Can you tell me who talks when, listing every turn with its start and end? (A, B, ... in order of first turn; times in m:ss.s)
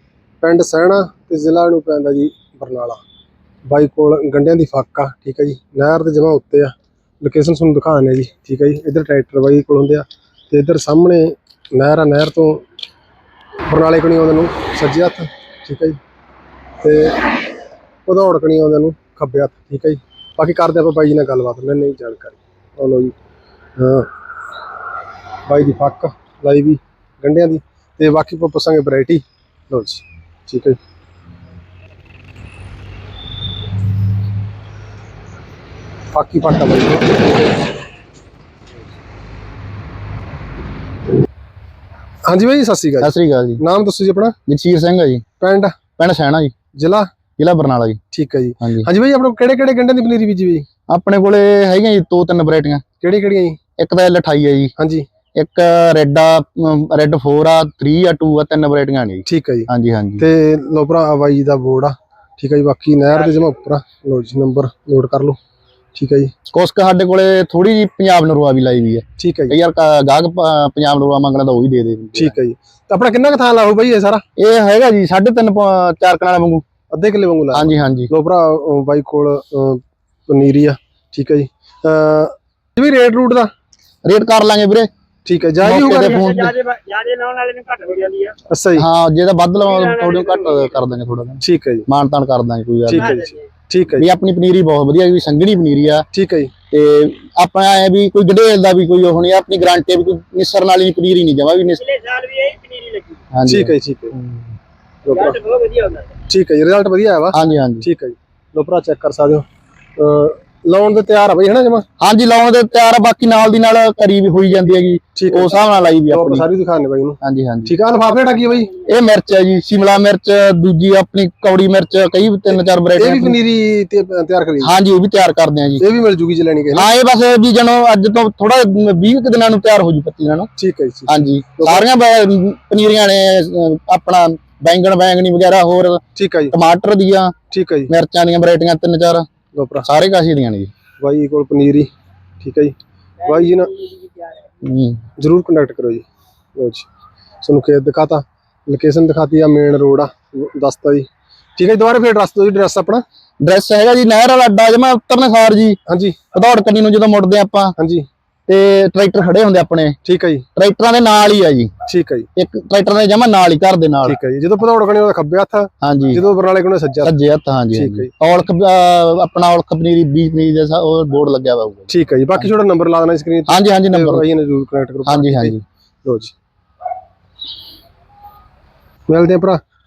0:00.4-0:03.0 A
0:03.7-0:12.6 A
0:13.7-0:16.0 A
0:16.8-0:17.3 A
0:18.1-0:23.2 A
0:23.8-0:24.1 A
0:25.5-0:30.8 A
0:36.1-0:37.3 A
0:42.3-0:44.4 A
0:43.0-0:43.6 B
0:44.5-0:45.2 B
0:45.4-0:45.7 A
0:46.0-0:46.5 B
0:46.8-0:47.1 A
0:47.4-0:48.0 B
0:48.1-0:50.7 A
0:48.6-0:48.9 B
0:50.9-0:52.8 B
0:53.0-0:53.6 A
0:53.8-0:54.7 B
0:54.8-0:55.1 A
0:55.4-1:00.3 B
0:59.3-1:05.4 A
1:06.0-1:06.3 A
1:06.5-1:12.4 B
1:09.2-1:09.6 A
1:12.2-1:14.2 A
1:14.4-1:16.6 B
1:16.9-1:23.5 A
1:17.5-1:18.1 B
1:24.0-1:24.9 B
1:25.2-1:26.5 A
1:25.6-1:26.6 B
1:26.4-1:28.4 C
1:28.5-1:28.9 A
1:28.8-1:33.2 B
1:29.8-1:30.6 C
1:31.4-1:31.9 A
1:32.9-1:34.1 A
1:34.0-1:36.0 B
1:36.1-1:36.5 A
1:36.7-1:41.9 B
1:41.9-1:43.2 C
1:43.3-1:44.5 B
1:43.5-1:44.2 A
1:45.0-1:45.4 A
1:45.4-1:46.1 C
1:46.3-1:49.5 A
1:47.3-1:47.9 B
1:50.0-1:51.8 A
1:52.0-1:56.5 B
1:55.2-1:55.6 A
1:56.1-1:58.7 A
1:57.2-1:57.7 B
1:58.8-2:03.4 B
2:02.5-2:04.8 A
2:04.6-2:05.9 B
2:05.8-2:06.9 A
2:06.8-2:10.5 B
2:10.6-2:11.9 A
2:11.1-2:16.0 B
2:16.2-2:16.6 A
2:16.5-2:17.3 B
2:17.5-2:17.9 A
2:17.9-2:19.3 B
2:19.5-2:19.9 A
2:19.9-2:20.7 B
2:21.0-2:21.9 A
2:22.4-2:23.9 A
2:24.6-2:25.0 B
2:25.2-2:26.0 A
2:26.6-2:26.9 A
2:27.4-2:33.0 A
2:33.4-2:35.8 B
2:35.9-2:36.2 A
2:36.3-2:37.8 B
2:37.8-2:38.1 A
2:38.5-2:40.0 B
2:40.0-2:40.5 A
2:40.6-2:41.7 B
2:41.9-2:42.3 A
2:42.4-2:44.2 B
2:44.0-2:47.2 A
2:45.8-2:46.2 B
2:47.0-2:52.5 B
2:47.7-2:48.1 A
2:51.9-2:56.3 A
2:53.5-2:54.3 B
2:55.1-2:55.6 B
2:59.1-2:59.6 A